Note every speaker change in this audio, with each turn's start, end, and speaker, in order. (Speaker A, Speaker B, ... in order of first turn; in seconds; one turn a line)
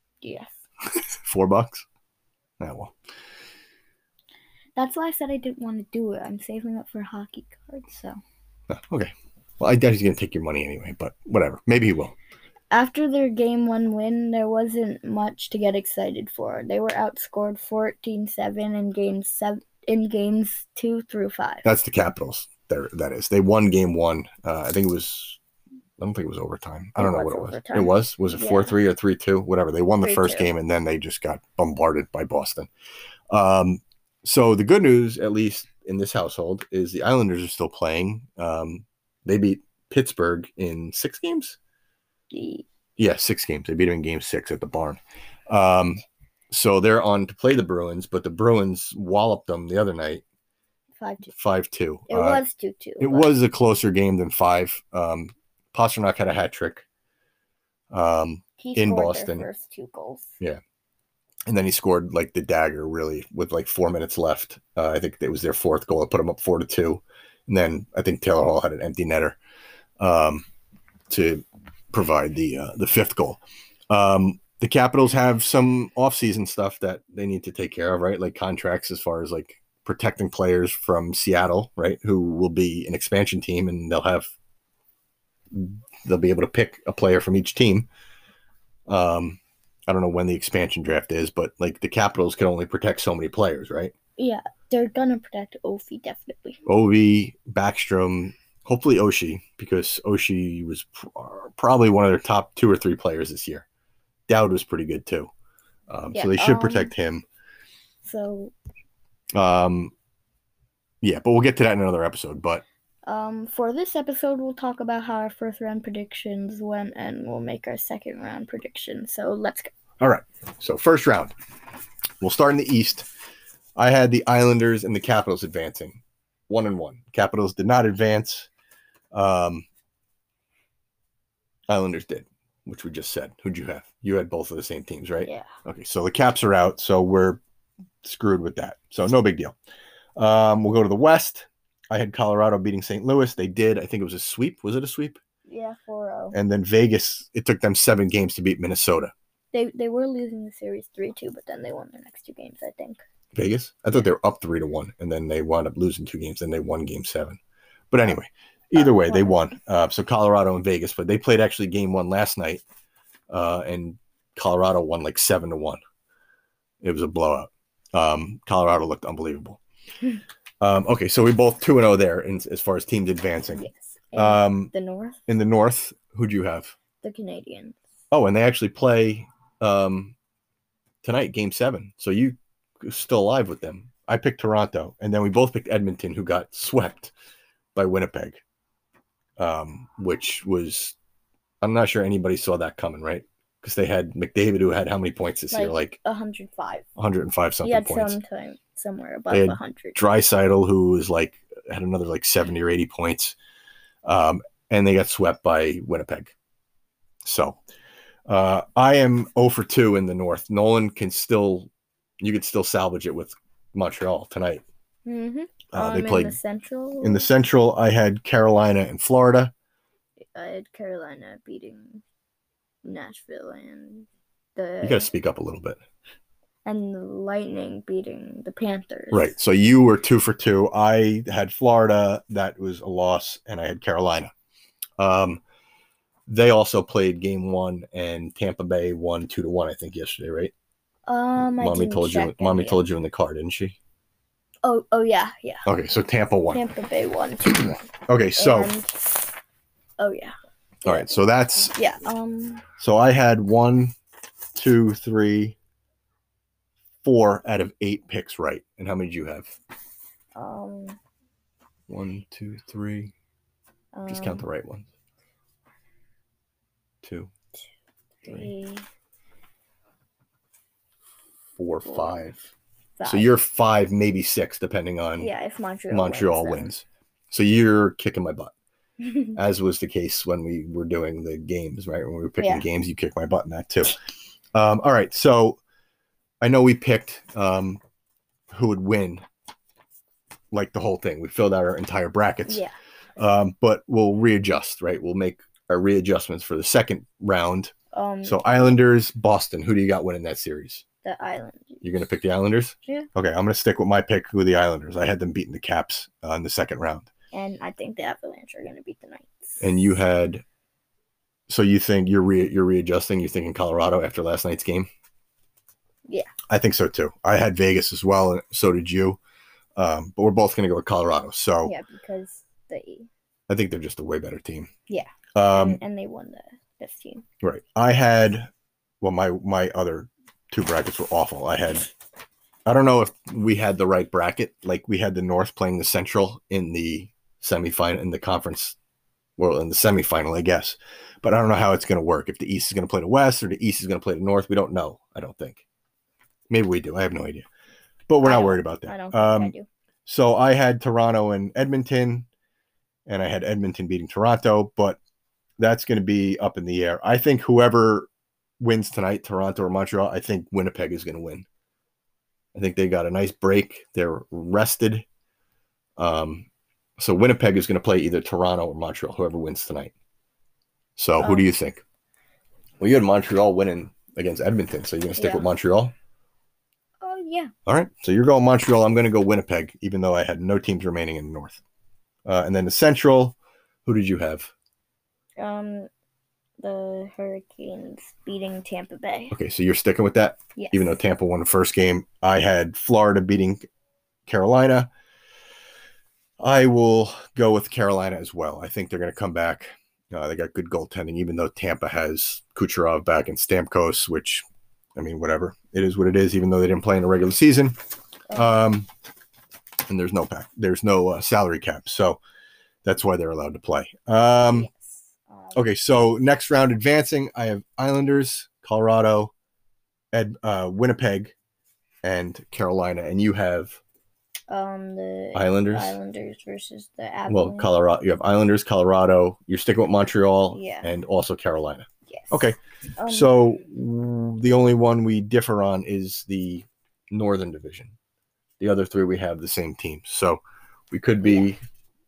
Speaker A: 0.2-0.6
Speaker B: 0.9-1.8
Speaker B: 2.6-2.9
Speaker A: 4.8-8.2
Speaker B: 8.7-12.2
Speaker A: 12.7-21.6
Speaker B: 21.6-25.4
Speaker B: 26.0-32.7
Speaker A: 27.0-28.8
Speaker A: 30.0-30.5
Speaker B: 33.3-41.6
Speaker A: 42.3-42.6
Speaker B: 43.0-50.2
Speaker A: 51.0-51.3
Speaker B: 51.3-52.4
Speaker A: 52.1-53.3
Speaker B: 53.0-56.9
Speaker B: 57.9-59.5
Speaker A: 58.6-60.4
Speaker B: 61.5-69.4
Speaker B: 70.0-70.4
Speaker B: 71.1-84.3
Speaker B: 85.5-87.9
Speaker B: 88.9-93.9
Speaker A: 94.2-96.6
Speaker B: 96.7-103.7
Speaker B: 104.3-105.3
Speaker B: 105.9-107.2
Speaker A: 106.1-106.9
Speaker A: 108.0-108.5
Speaker B: 109.3-109.9
Speaker B: 111.0-112.6
Speaker A: 113.0-119.7
Speaker B: 120.0-121.3
Speaker B: 122.2-123.1
Speaker B: 123.8-128.5
Speaker B: 129.1-129.7
Speaker B: 131.7-137.4
Speaker B: 138.0-139.6
Speaker B: 140.2-145.2
Speaker A: 145.5-146.4
Speaker B: 146.3-149.1
Speaker A: 149.5-153.0
Speaker B: 153.3-157.4
Speaker B: 157.9-162.6
Speaker A: 158.8-159.4
Speaker B: 163.3-165.8
Speaker B: 166.8-169.6
Speaker B: 170.6-174.7
Speaker A: 173.5-175.2
Speaker B: 175.3-176.7
Speaker A: 177.0-177.9
Speaker B: 178.1-180.2
Speaker B: 181.0-187.1
Speaker B: 187.7-188.4
Speaker B: 189.4-190.9
Speaker B: 191.6-196.0
Speaker A: 195.5-196.8
Speaker B: 197.0-198.2
Speaker A: 197.6-200.0
Speaker B: 199.3-203.4
Speaker B: 204.0-206.3
Speaker B: 207.2-207.6
Speaker B: 208.3-211.7
Speaker B: 212.2-214.6
Speaker A: 215.1-217.3
Speaker B: 215.7-216.4
Speaker B: 217.0-219.5
Speaker A: 220.2-222.0
Speaker A: 222.8-225.1
Speaker B: 224.8-225.8
Speaker A: 226.6-229.3
Speaker B: 229.1-234.3
Speaker B: 235.0-235.4
Speaker B: 236.3-240.5
Speaker A: 241.1-242.8
Speaker B: 241.4-243.8
Speaker A: 244.6-245.6
Speaker B: 245.7-246.6
Speaker A: 246.5-249.0
Speaker B: 247.5-248.7
Speaker A: 250.0-250.3
Speaker B: 250.8-251.7
Speaker A: 250.8-252.6
Speaker B: 252.8-253.9
Speaker B: 254.5-255.6
Speaker B: 257.0-259.5
Speaker A: 260.3-261.0
Speaker B: 261.9-263.1
Speaker A: 263.9-264.4
Speaker B: 264.1-264.9
Speaker B: 267.0-267.3
Speaker A: 268.2-268.8
Speaker B: 271.6-272.5
Speaker A: 271.8-272.2
Speaker A: 273.0-273.4
Speaker B: 273.0-275.3
Speaker A: 275.2-276.7
Speaker B: 275.9-278.5
Speaker B: 279.3-284.0
Speaker A: 282.4-282.6
Speaker B: 284.5-285.6
Speaker B: 286.4-287.8
Speaker B: 288.5-289.2
Speaker B: 290.5-292.6
Speaker A: 292.4-292.7
Speaker B: 293.2-297.7
Speaker A: 297.9-298.8
Speaker B: 298.2-300.8
Speaker A: 301.0-301.8
Speaker B: 301.8-307.1
Speaker A: 307.3-309.7
Speaker B: 309.6-310.4
Speaker B: 311.5-314.9
Speaker B: 316.5-319.2
Speaker B: 319.8-321.7
Speaker A: 321.6-323.1
Speaker B: 323.5-324.7
Speaker A: 324.9-327.2
Speaker B: 325.3-325.8
Speaker B: 327.4-328.5
Speaker B: 329.0-331.9
Speaker B: 332.6-338.8
Speaker B: 339.4-345.6
Speaker B: 346.5-347.4
Speaker B: 348.1-349.5
Speaker A: 348.2-349.7
Speaker B: 350.1-352.3
Speaker B: 353.1-355.0
Speaker B: 355.6-358.1
Speaker B: 358.6-361.4
Speaker B: 362.5-365.1
Speaker B: 366.0-366.5
Speaker B: 367.0-369.9
Speaker B: 371.0-371.8
Speaker A: 371.2-371.5
Speaker B: 372.8-375.9
Speaker A: 375.2-375.5
Speaker A: 377.0-377.5
Speaker B: 377.6-381.6
Speaker B: 382.2-384.5
Speaker A: 385.4-385.9
Speaker A: 386.6-389.4
Speaker B: 389.3-393.6
Speaker A: 390.6-391.0
Speaker B: 394.3-394.9
Speaker B: 396.4-404.4
Speaker B: 404.9-407.8
Speaker A: 408.3-408.6
Speaker B: 408.3-408.9
Speaker B: 409.9-412.2
Speaker B: 412.8-414.7
Speaker A: 414.4-415.7
Speaker B: 415.5-419.3
Speaker B: 420.1-421.3
Speaker B: 422.0-423.8
Speaker A: 424.5-427.7
Speaker B: 425.3-426.0
Speaker B: 427.3-437.9
Speaker A: 430.5-430.9
Speaker A: 432.1-433.3
Speaker B: 438.6-441.6